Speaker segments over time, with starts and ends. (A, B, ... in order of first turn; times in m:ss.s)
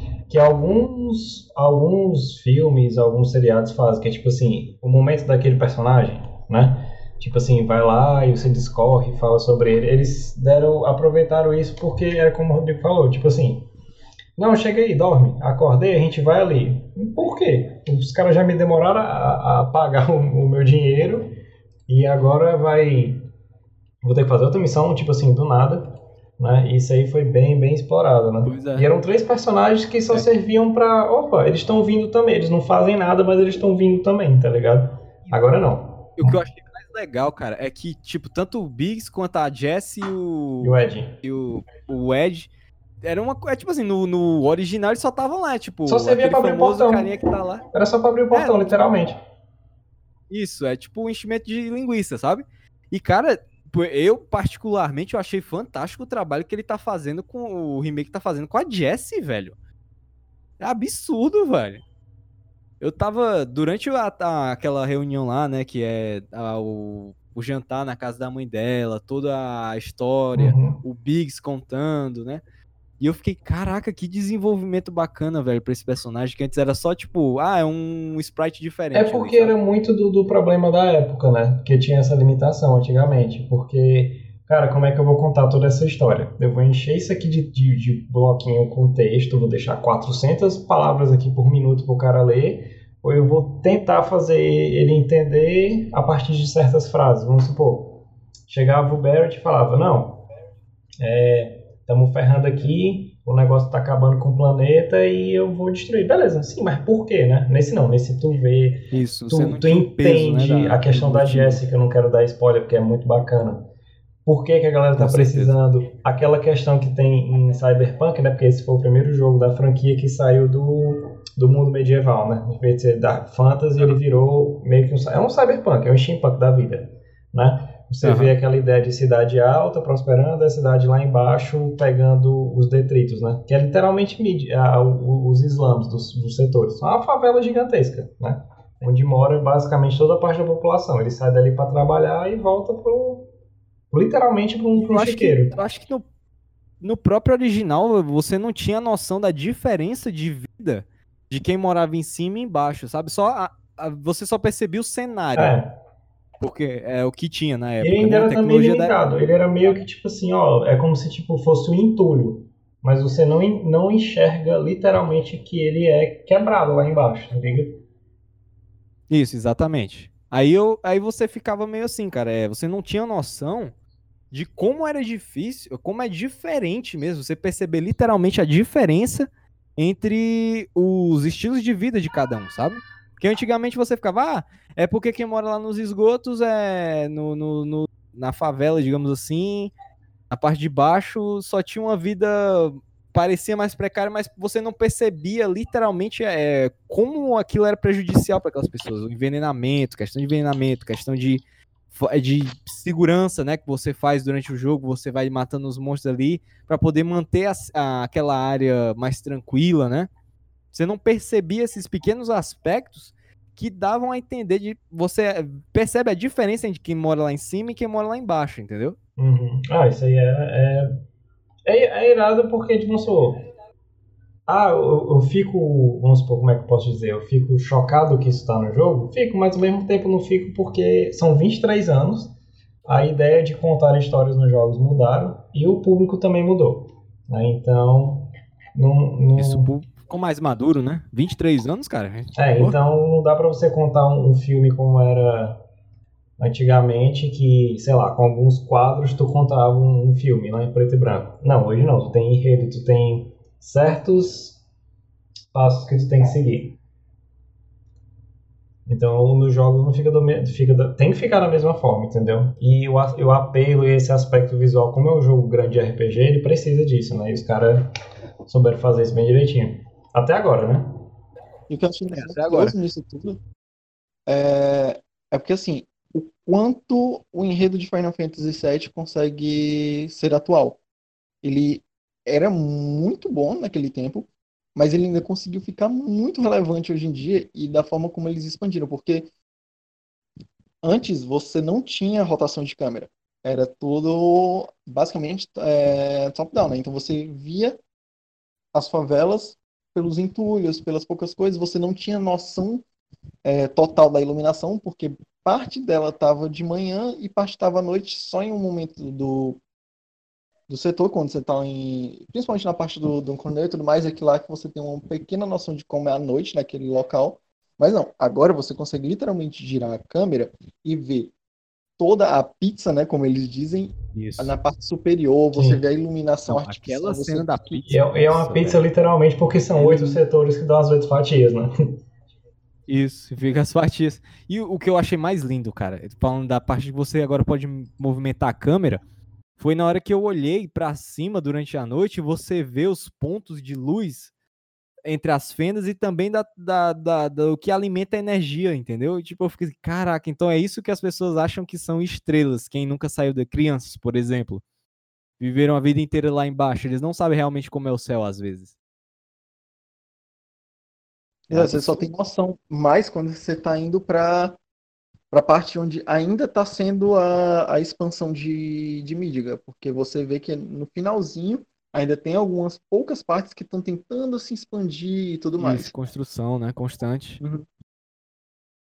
0:00.3-0:13.7 A
0:14.4-0:21.4 A
0:21.9-0:23.2 A
0:24.0-0:25.8 A
0:26.4-0:36.4 A
0:28.4-0:28.9 B
0:36.2-0:42.5 B
0:40.6-0:41.2 A
0:43.0-0:47.6 B
0:45.9-0:47.2 A
0:47.7-0:49.2 A
0:48.3-0:48.8 B
0:50.3-0:59.5 B
1:00.6-1:01.8 B
1:02.8-1:12.4 B
1:10.4-1:10.8 A
1:13.0-1:19.6 B
1:18.9-1:40.2 A
1:41.0-1:53.7 A
1:48.9-1:51.6 B
1:54.3-2:23.3 A
1:55.0-1:55.6 B
2:08.0-2:08.3 B
2:23.9-2:25.5 A
2:24.7-2:26.0 B
2:26.8-2:35.6 B
2:35.4-2:35.7 A
2:36.4-2:38.9 B
2:37.8-2:47.8 A
2:49.1-2:53.7 B
2:54.3-3:09.7 B
3:10.3-3:30.1 B
3:30.7-3:39.0 B
3:39.2-3:40.9 A
3:41.6-3:43.4 A
3:44.5-3:52.3 A
3:52.9-3:59.7 A
3:59.4-4:02.8 B
4:02.4-4:05.6 A
4:06.4-4:14.6 A
4:15.5-4:16.8 A
4:18.9-4:27.9 A
4:28.5-4:30.9 A
4:31.7-4:33.4 C
4:32.1-4:32.8 B
4:34.3-4:40.8 C
4:41.4-4:49.3 C
4:50.8-4:57.8 C
4:58.7-5:02.8 C
5:03.4-5:09.6 C
5:10.7-5:21.3 C
5:22.0-5:27.6 C
5:24.1-5:24.6 B
5:25.5-5:25.8 A
5:26.5-5:28.9 B
5:27.9-5:31.7 A
5:29.7-5:30.2 B
5:32.9-5:39.0 B
5:39.6-5:44.3 B
5:45.0-5:54.6 B
5:55.4-5:58.7 B
6:01.5-6:04.6 C
6:01.5-6:02.0 B
6:05.3-6:15.9 C
6:15.6-6:17.4 B